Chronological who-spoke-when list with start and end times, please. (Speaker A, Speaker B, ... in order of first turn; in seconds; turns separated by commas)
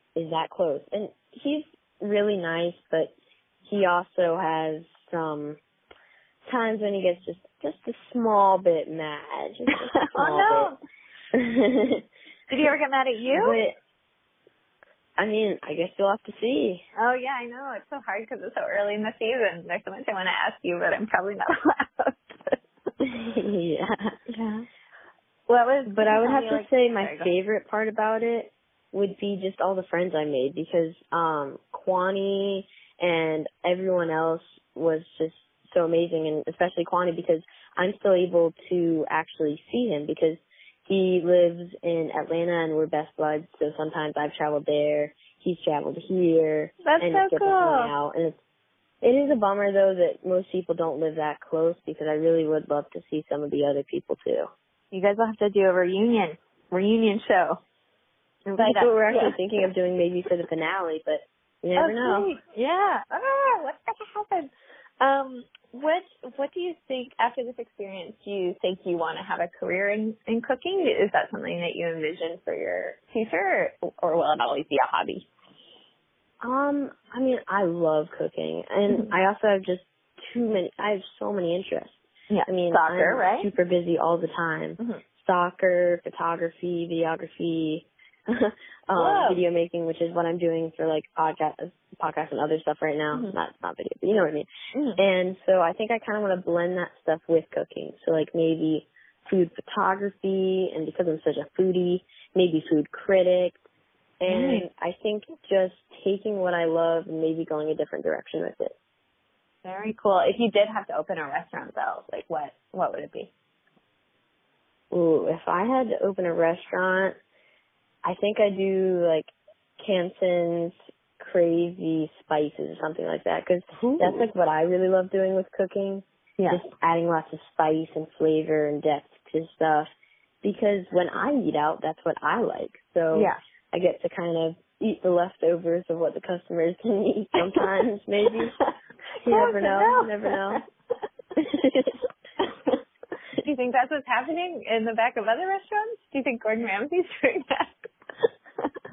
Speaker A: 0.2-3.1, Speaker A: 3.7-5.6, Speaker A: 6.5-10.7, Speaker B: 9.8-10.8, Speaker A: 11.3-12.0, Speaker B: 12.5-13.6, Speaker A: 13.3-13.8, Speaker A: 15.2-16.8, Speaker B: 17.0-22.6, Speaker A: 23.0-24.2, Speaker B: 24.3-24.7, Speaker B: 25.5-27.3, Speaker A: 25.9-48.4, Speaker B: 46.8-47.9, Speaker A: 49.0-54.5, Speaker B: 54.9-57.6, Speaker B: 58.5-59.4, Speaker A: 58.6-62.3, Speaker B: 61.8-75.3, Speaker A: 76.4-82.0, Speaker B: 82.3-83.5, Speaker A: 82.5-103.6, Speaker B: 89.0-89.4, Speaker B: 94.8-95.0, Speaker A: 104.2-108.7, Speaker B: 104.3-104.7, Speaker B: 109.6-113.3, Speaker A: 114.9-117.2, Speaker A: 118.0-129.9, Speaker B: 123.8-124.2, Speaker A: 130.4-138.5, Speaker B: 133.1-133.4, Speaker B: 137.4-137.7, Speaker A: 139.2-140.6, Speaker B: 139.2-140.6, Speaker A: 141.4-142.0, Speaker B: 142.4-142.8, Speaker B: 143.4-147.9